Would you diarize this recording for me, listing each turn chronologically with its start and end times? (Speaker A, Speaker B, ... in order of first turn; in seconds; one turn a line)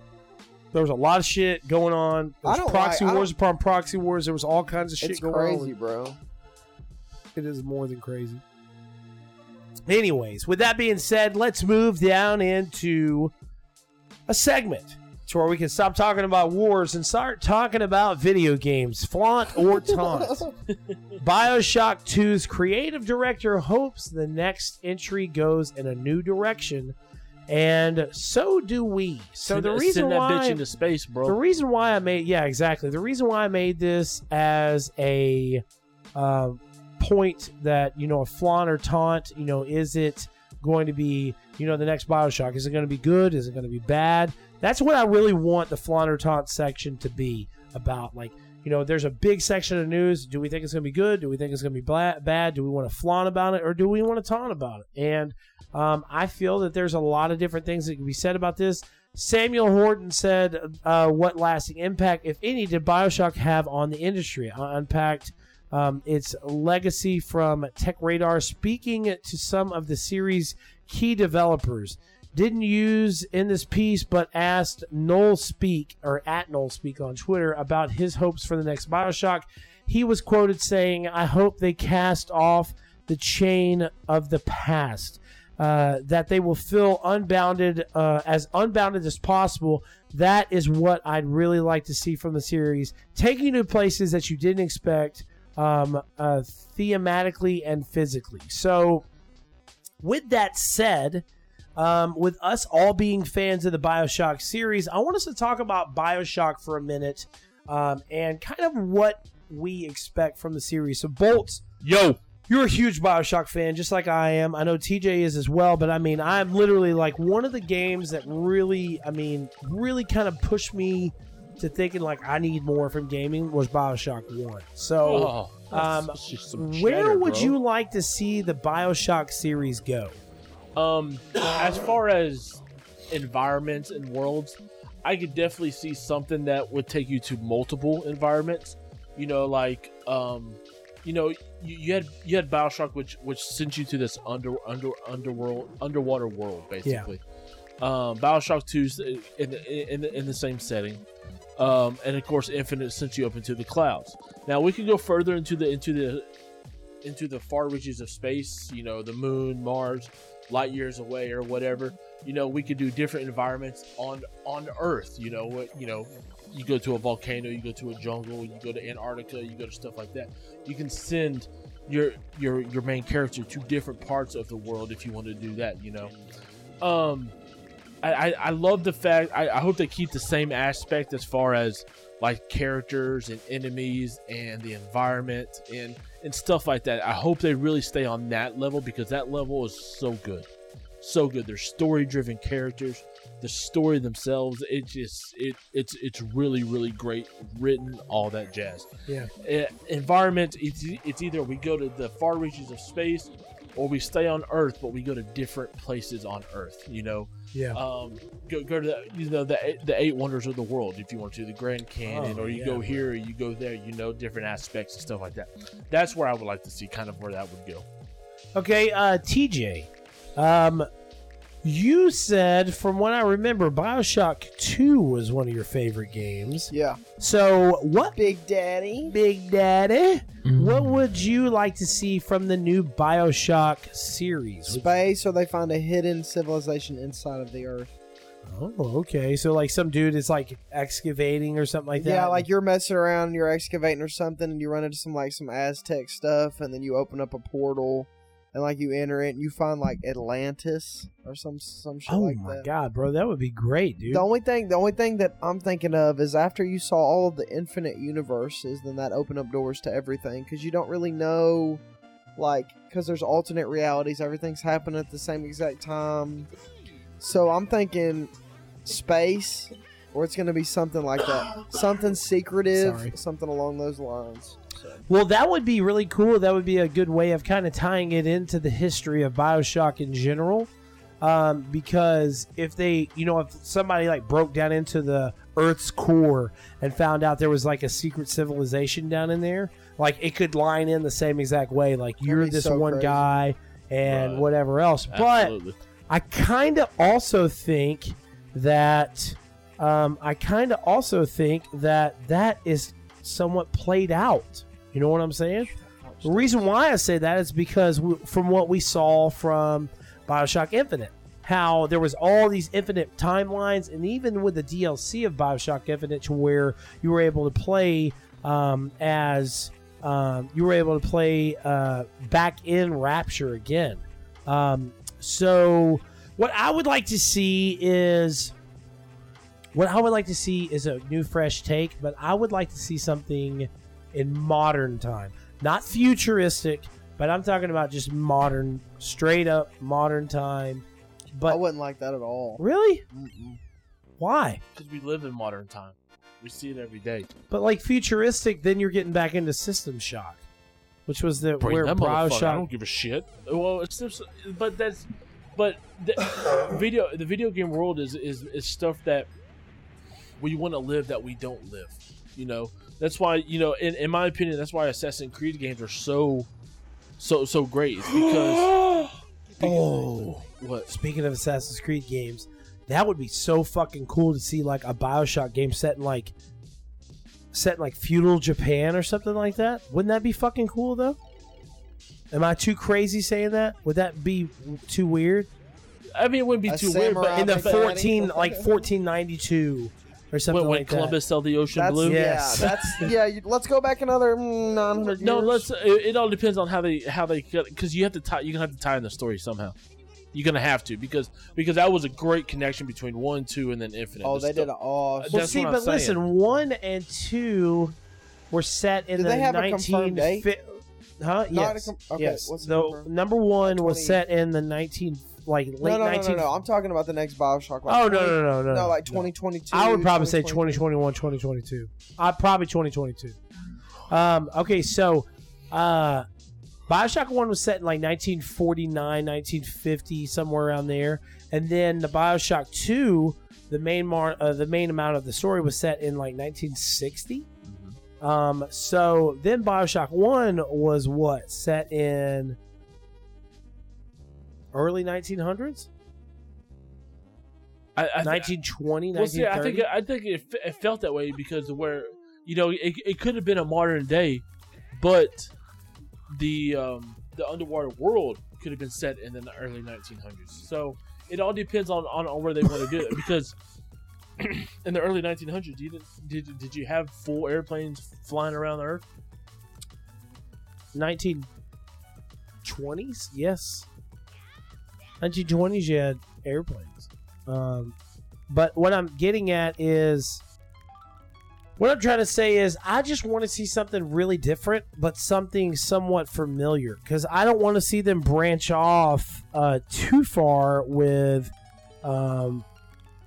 Speaker A: 0.7-5.7
Speaker B: 2.4-3.3
Speaker B: 5.0-6.2
Speaker A: 7.3-8.4
Speaker A: 9.9-13.3
Speaker A: 14.3-20.5
Speaker B: 20.1-20.5
Speaker C: 20.7-21.2
Speaker A: 21.2-26.9
Speaker A: 27.5-30.6
Speaker C: 29.5-31.4
Speaker A: 31.2-35.6
Speaker A: 36.1-99.0
Speaker A: 100.0-101.2
Speaker A: 101.8-111.6
Speaker C: 111.8-112.2
Speaker A: 112.5-130.2
Speaker C: 125.0-127.6
Speaker C: 130.8-147.2
Speaker C: 147.8-151.0
Speaker C: 151.6-156.3
Speaker C: 157.0-176.1
Speaker C: 176.8-177.3
Speaker C: 178.0-190.5
Speaker C: 191.0-198.9
Speaker C: 199.4-217.8
Speaker A: 207.5-207.8
Speaker A: 212.1-213.1
Speaker A: 218.6-220.9
Speaker A: 221.6-228.2
Speaker B: 226.7-227.0
Speaker B: 228.2-229.2
Speaker A: 229.1-235.0
Speaker C: 230.4-231.0
Speaker B: 234.7-237.9
Speaker A: 238.4-242.5
Speaker B: 242.0-252.7
Speaker A: 252.1-254.3
Speaker B: 254.1-261.8
Speaker B: 262.4-266.5
Speaker B: 267.2-268.3
Speaker B: 268.9-275.0
Speaker A: 272.8-273.1
Speaker A: 275.1-280.7
Speaker A: 281.2-295.6
Speaker B: 292.2-293.3
Speaker C: 294.1-294.5
Speaker C: 295.1-295.8
Speaker A: 296.1-305.7
Speaker B: 305.8-306.6
Speaker A: 306.2-328.5
Speaker A: 329.7-341.6
Speaker B: 341.5-343.6
Speaker A: 342.6-343.0
Speaker A: 344.2-344.6
Speaker C: 344.8-347.3
Speaker A: 347.5-350.4
Speaker A: 351.1-352.7
Speaker C: 351.6-359.3
Speaker C: 360.4-366.5
Speaker C: 367.2-368.8
Speaker A: 368.1-376.3
Speaker C: 369.6-370.9
Speaker A: 377.5-381.2
Speaker A: 382.3-385.5
Speaker C: 386.1-387.9
Speaker B: 386.7-388.7
Speaker A: 387.3-391.2
Speaker C: 390.5-393.0
Speaker B: 391.7-395.7
Speaker A: 392.0-393.1
Speaker C: 395.2-399.8
Speaker C: 400.3-406.2
Speaker B: 404.2-405.5
Speaker A: 405.3-407.9
Speaker A: 408.5-416.5
Speaker B: 409.2-410.5
Speaker B: 411.5-413.1
Speaker B: 413.6-414.2
Speaker B: 415.8-420.8
Speaker A: 417.9-423.4
Speaker A: 424.1-426.3
Speaker A: 426.9-437.5
Speaker C: 437.6-438.0
Speaker A: 438.2-442.6
Speaker A: 444.7-445.9
Speaker C: 448.0-448.5
Speaker A: 448.2-449.9
Speaker C: 449.1-454.4
Speaker C: 454.9-455.5
Speaker C: 456.3-463.6
Speaker C: 464.4-469.1
Speaker A: 470.9-471.5
Speaker A: 472.6-473.9
Speaker A: 475.2-478.0
Speaker A: 478.5-480.4
Speaker A: 481.8-492.7